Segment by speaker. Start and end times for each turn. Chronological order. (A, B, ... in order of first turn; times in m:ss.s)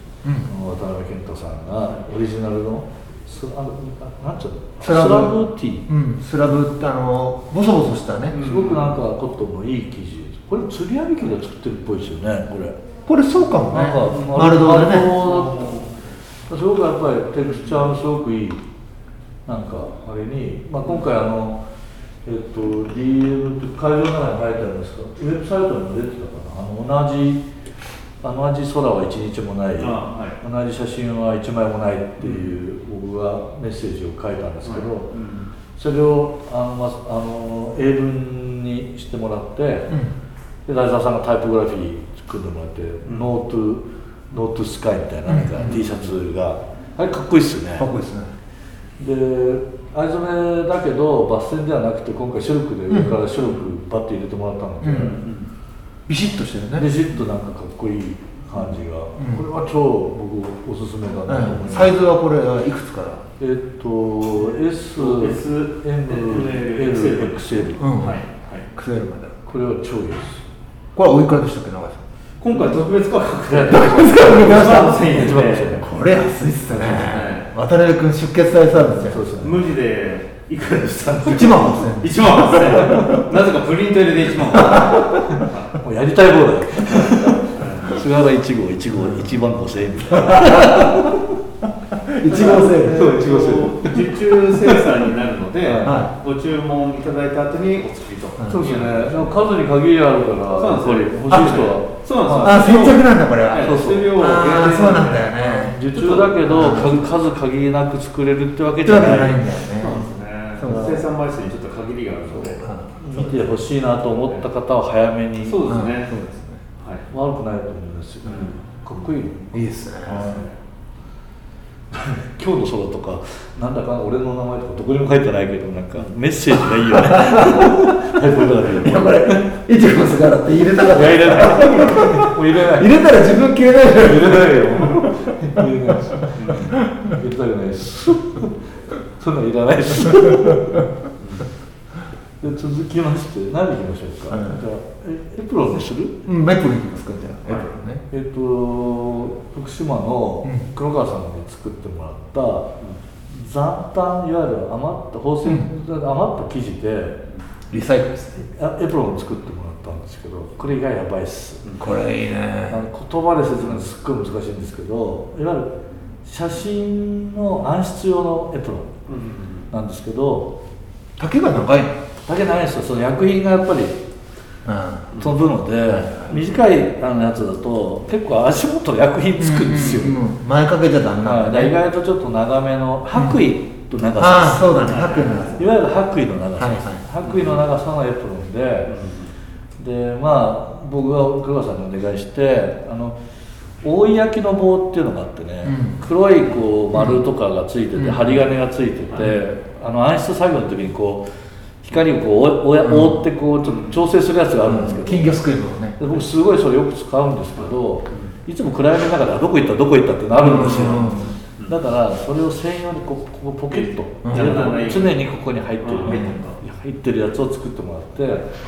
0:00.2-0:00.5 A
0:00.4-0:05.9 B
0:04.8-0:08.4 A
0:08.3-0:09.0 C
0:08.3-0:12.8 B
0:13.0-0:15.2 A
0:13.7-0:15.8 B
0:14.1-0:14.4 C
0:15.1-0:15.9 C
0:16.5-0:18.6 B
0:19.4-0:21.6 B
0:22.2-0:27.4 B
0:28.2-0:35.1 B
0:29.8-0:30.4 C
0:32.2-0:32.6 C
0:34.6-0:35.5 C
0:35.8-0:39.9 B
0:40.6-0:47.9 B
0:45.3-0:45.7 A
0:45.6-0:46.1 C
0:47.8-0:48.3 A
0:49.0-0:55.2 B
0:52.9-0:53.1 A
0:53.4-0:53.7 C
0:54.8-0:55.2 A
0:54.9-0:55.5 C
0:56.1-0:56.9 A
0:56.8-1:02.0 B
0:58.5-0:58.8 C
0:59.2-0:59.4 A
1:01.3-1:03.2 A
1:03.4-1:08.1 B
1:04.5-1:08.7 C
1:07.8-1:08.2 A
1:08.7-1:09.4 A
1:09.4-1:10.5 B
1:11.0-1:12.0 A
1:12.4-1:15.8 C
1:13.4-1:15.9 B
1:13.7-1:19.3 A
1:16.9-1:17.5 C
1:18.8-1:19.7 B
1:19.4-1:25.7 C
1:21.2-1:23.3 A
1:24.5-1:25.4 A
1:24.6-1:25.2 B
1:25.7-1:31.4 B
1:26.9-1:28.0 C
1:28.9-1:29.4 A
1:30.1-1:31.2 A
1:31.9-1:33.2 A
1:32.3-1:39.3 C
1:32.3-1:34.9 B
1:35.6-1:36.0 B
1:35.8-1:36.1 A
1:38.4-1:38.7 A
1:38.5-1:42.8 B
1:40.6-1:47.0 C
1:42.4-1:45.8 A
1:43.6-1:49.4 B
1:46.4-1:47.0 A
1:48.8-1:50.0 A
1:49.8-1:52.6 C
1:50.6-1:51.0 A
1:50.7-1:50.9 B
1:52.6-1:53.4 A
1:53.0-1:55.7 B
1:55.4-1:56.1 C
1:55.7-1:56.6 A
1:56.8-1:57.0 C
1:57.1-2:00.4 B
1:58.2-1:59.1 C
1:59.5-2:00.4 A
2:00.0-2:00.5 C
2:01.9-2:09.5 B
2:06.9-2:08.1 A
2:08.8-2:17.1 A
2:10.8-2:18.6 B
2:16.4-2:16.7 C
2:19.2-2:20.8 B
2:22.4-2:26.2 B
2:24.3-2:24.6 A
2:26.2-2:28.0 A
2:28.1-2:32.7 B
2:30.4-2:30.7 A
2:33.3-2:37.2 B
2:37.7-2:38.4 A
2:38.4-2:41.7 B
2:41.8-2:42.8 A
2:42.7-2:45.7 B
2:43.6-2:43.9 C
2:46.2-2:48.9 B
2:49.1-2:49.7 C
2:49.7-2:50.5 B
2:51.2-2:52.0 A
2:52.2-2:54.0 B
2:54.6-2:55.1 A
2:55.2-3:00.2 B
2:55.9-2:56.3 A
2:59.4-3:01.8 A
3:01.2-3:09.0 B
3:03.1-3:03.4 A
3:04.2-3:05.6 A
3:04.8-3:05.5 C
3:06.6-3:07.0 A
3:07.2-3:07.6 C
3:08.9-3:09.3 C
3:09.8-3:13.2 B
3:13.8-3:21.2 B
3:15.6-3:16.0 A
3:16.9-3:17.2 A
3:18.0-3:18.3 A
3:21.8-3:25.4 B
3:22.8-3:23.2 A
3:23.6-3:24.0 C
3:24.6-3:26.0 A
3:26.0-3:38.4 B
3:27.6-3:28.3 C
3:30.4-3:31.4 A
3:30.6-3:31.8 C
3:33.7-3:35.2 C
3:34.2-3:34.6 A
3:35.8-3:36.6 C